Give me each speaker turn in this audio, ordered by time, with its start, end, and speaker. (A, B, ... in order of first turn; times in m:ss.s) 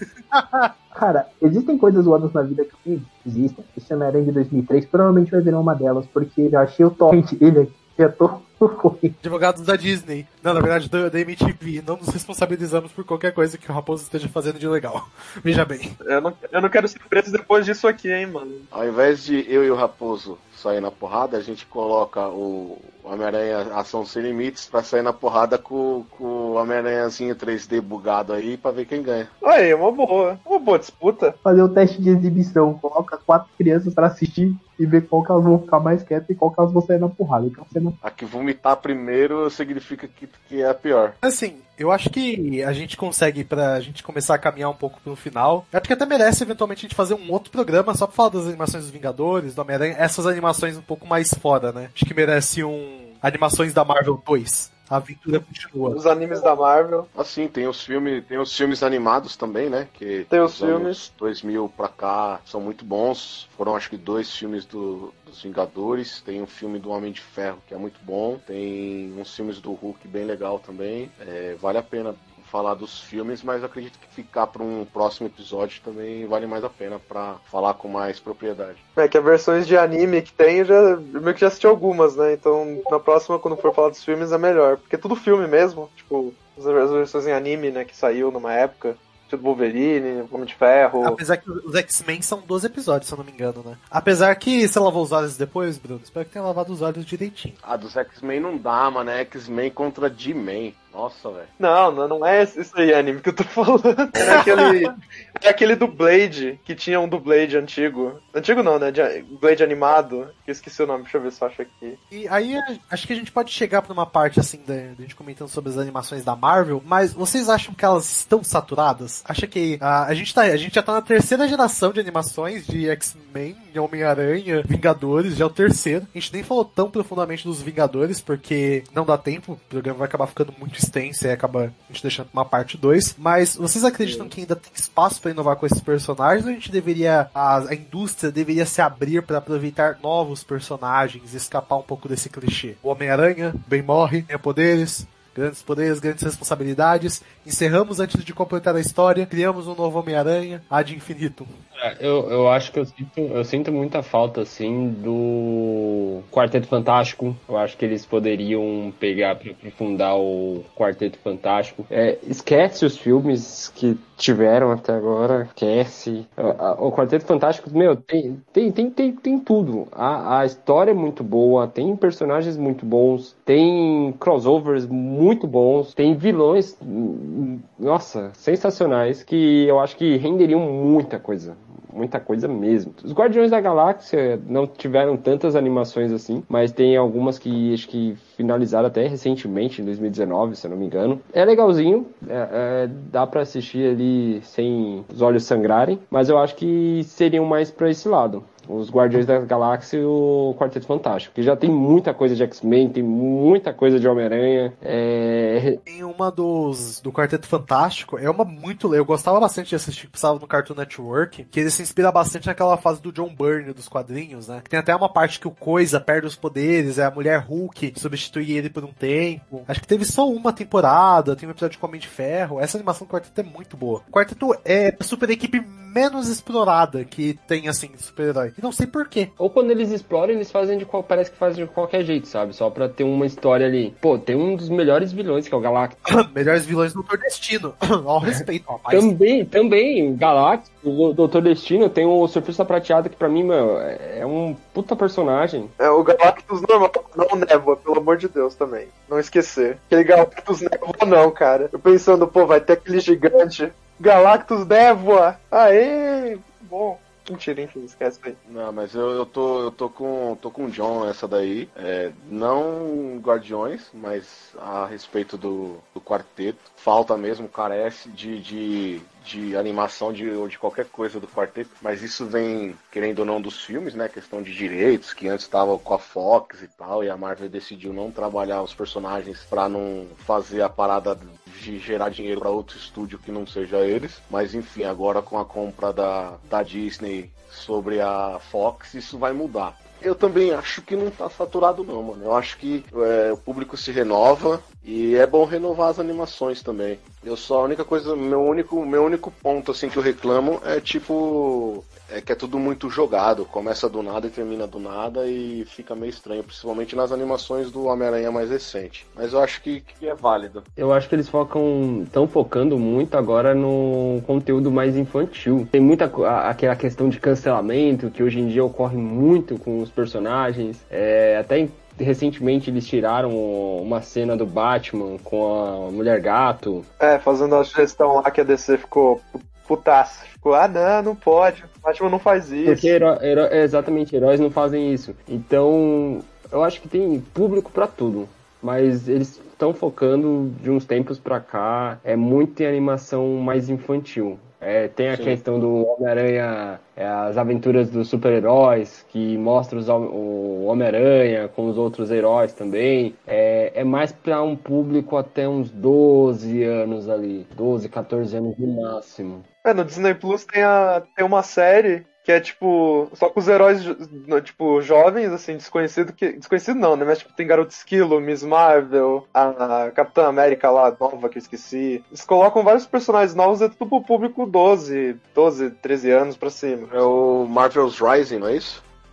0:00.3-0:00.7 A
0:00.9-0:09.2 B
0:09.2-0:15.9 A
0:16.0-0:18.6 C
0:18.7-0:29.3 D
0:29.4-0:31.4 C
0:31.4-0:38.0 B
0:38.0-0:41.2 D
0:41.2-0:56.0 A
0:55.9-0:57.1 C
0:57.2-1:18.8 D
1:00.3-1:01.0 C
1:19.0-1:31.2 C
1:31.0-1:37.6 A
1:37.6-1:41.5 D
1:41.6-1:52.0 C
1:44.2-1:44.5 D
1:44.3-1:44.8 A
1:52.1-2:31.5 A
2:31.8-3:25.8 E
3:25.9-3:49.3 A
3:49.4-3:56.0 E
3:56.1-3:59.1 A
3:58.2-4:05.7 E
4:05.8-4:18.4 C
4:18.5-5:10.7 D
5:10.8-5:26.9 E
5:27.0-5:33.0 C
5:32.6-5:59.5 E
5:45.1-5:45.4 D
5:59.6-6:16.9 C
6:16.9-6:18.8 D